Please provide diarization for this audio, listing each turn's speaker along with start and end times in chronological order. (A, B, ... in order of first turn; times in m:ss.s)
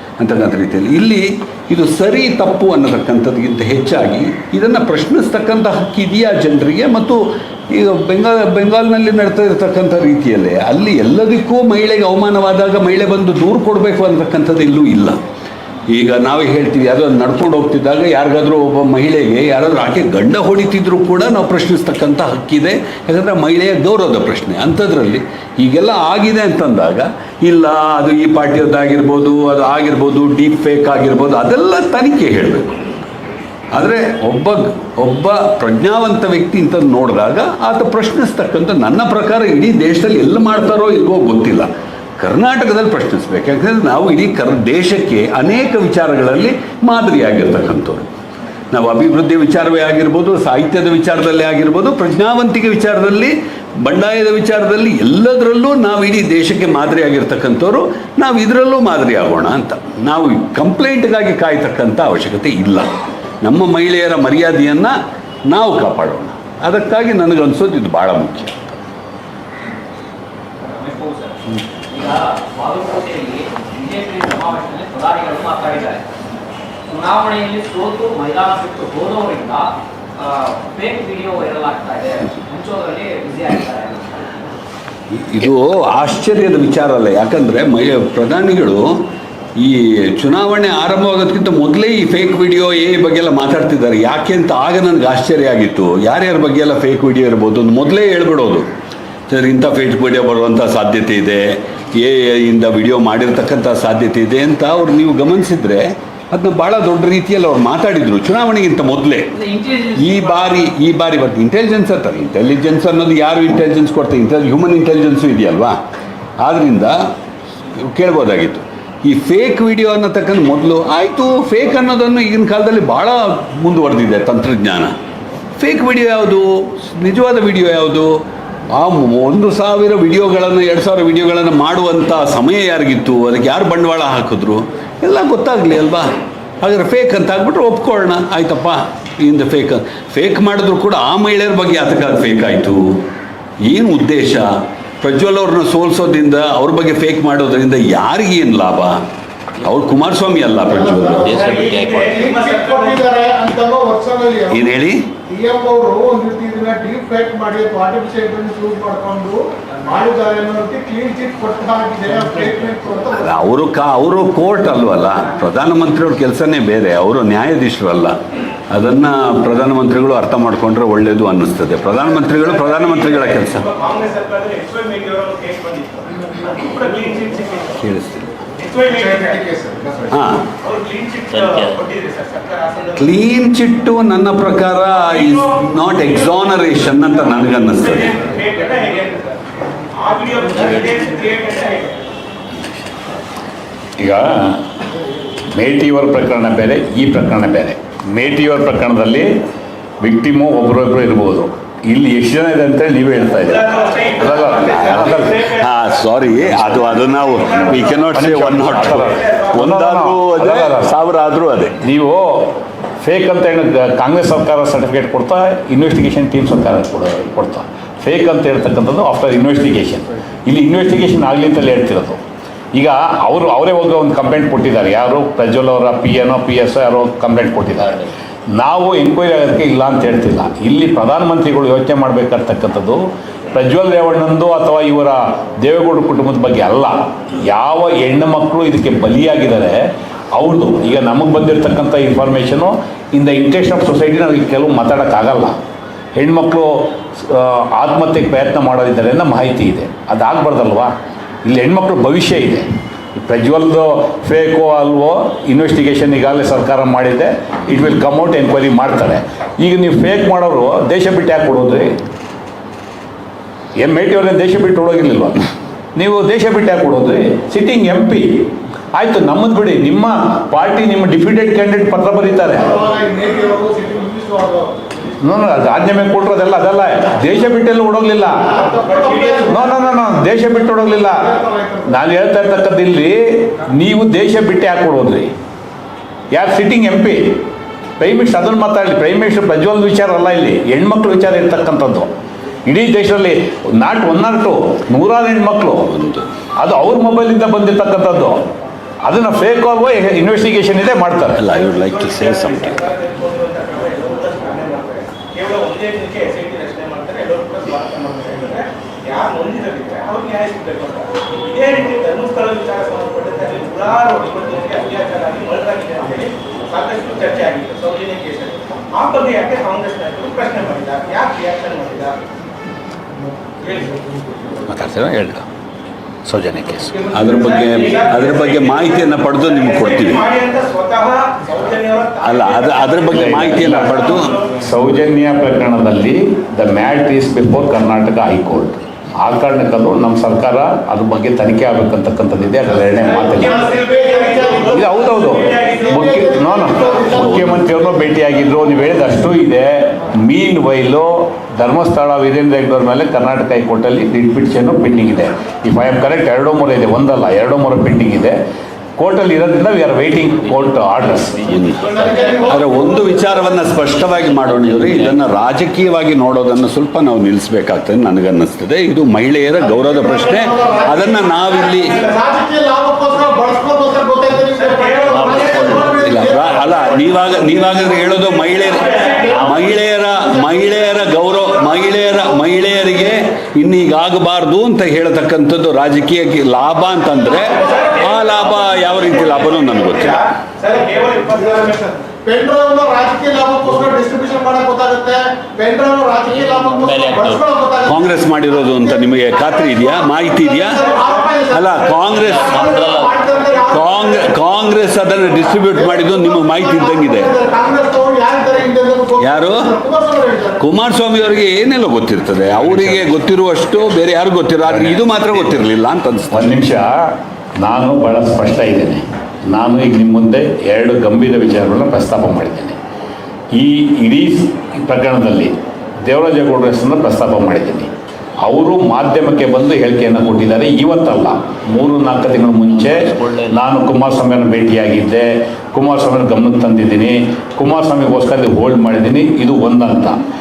0:00.2-0:15.2 A
0:15.9-0:33.1 A
0:33.7-0:48.0 A
0:48.7-1:05.0 A
1:05.5-1:08.6 A
1:10.6-1:16.0 B
1:16.9-1:24.2 B
1:25.1-1:29.0 A
1:29.6-1:38.7 A
1:39.3-1:49.4 A
1:49.3-1:50.5 B
1:49.9-1:55.8 A
1:56.4-1:57.0 A
1:57.7-2:05.0 A
2:05.6-2:08.2 A
2:08.7-2:23.0 A
2:23.6-2:29.0 A
2:29.6-2:31.7 A
2:30.6-2:34.7 C
2:31.4-2:33.0 D
2:34.5-2:35.1 A
2:35.3-2:43.3 C
2:43.2-2:53.7 A
2:52.3-2:57.8 D
2:57.8-2:58.3 A
2:58.6-2:59.4 D
2:58.9-3:00.2 C
3:00.1-3:00.5 A
3:00.6-3:03.1 D
3:03.0-3:08.2 A
3:04.9-3:12.1 D
3:14.0-3:14.6 E
3:15.5-3:19.3 E
3:20.0-3:25.4 E
3:23.4-3:25.7 D
3:24.6-3:31.8 A
3:26.7-3:28.2 D
3:28.1-3:30.9 E
3:28.9-3:29.5 D
3:31.8-3:42.2 E
3:42.7-3:59.8 E
4:00.3-4:05.6 E
4:06.2-4:10.9 E
4:11.4-4:21.9 E
4:23.8-4:25.4 E
4:26.0-4:32.7 E
4:32.6-4:34.9 C
4:35.2-4:38.5 E
4:38.4-4:39.7 C
4:38.8-4:39.6 D
4:39.5-4:41.3 E
4:41.0-4:42.0 C
4:41.8-4:45.3 E
4:46.3-4:47.4 E
4:48.0-4:52.1 E
4:52.6-4:55.8 E
4:55.8-4:56.3 A
4:56.6-4:58.4 E
4:59.0-5:01.4 E
5:01.4-5:02.9 A
5:01.5-5:22.2 D
5:23.6-5:24.0 D
5:24.7-5:25.4 E
5:26.2-5:27.0 E
5:27.0-5:34.5 D
5:27.1-5:30.2 A
5:32.2-5:34.4 A
5:33.1-5:34.0 E
5:34.6-5:43.6 E
5:43.0-5:45.9 D
5:43.4-5:44.8 C
5:44.7-5:58.4 E
5:45.7-5:47.4 C
5:47.1-5:47.6 A
5:59.0-6:01.4 E
6:01.4-6:12.0 A
6:01.8-6:03.4 C
6:02.0-6:02.4 D
6:09.7-6:16.7 C
6:14.6-6:16.7 D
6:15.9-6:30.3 A
6:18.9-6:19.2 D
6:27.5-6:32.0 D
6:32.2-6:44.4 C
6:37.8-6:40.8 A
6:41.5-6:42.9 A
6:43.7-6:47.3 A
6:45.7-6:50.6 C
6:49.2-6:49.7 A
6:50.6-6:56.6 A
6:56.3-7:02.8 E
7:03.5-7:07.9 E
7:08.4-7:20.2 E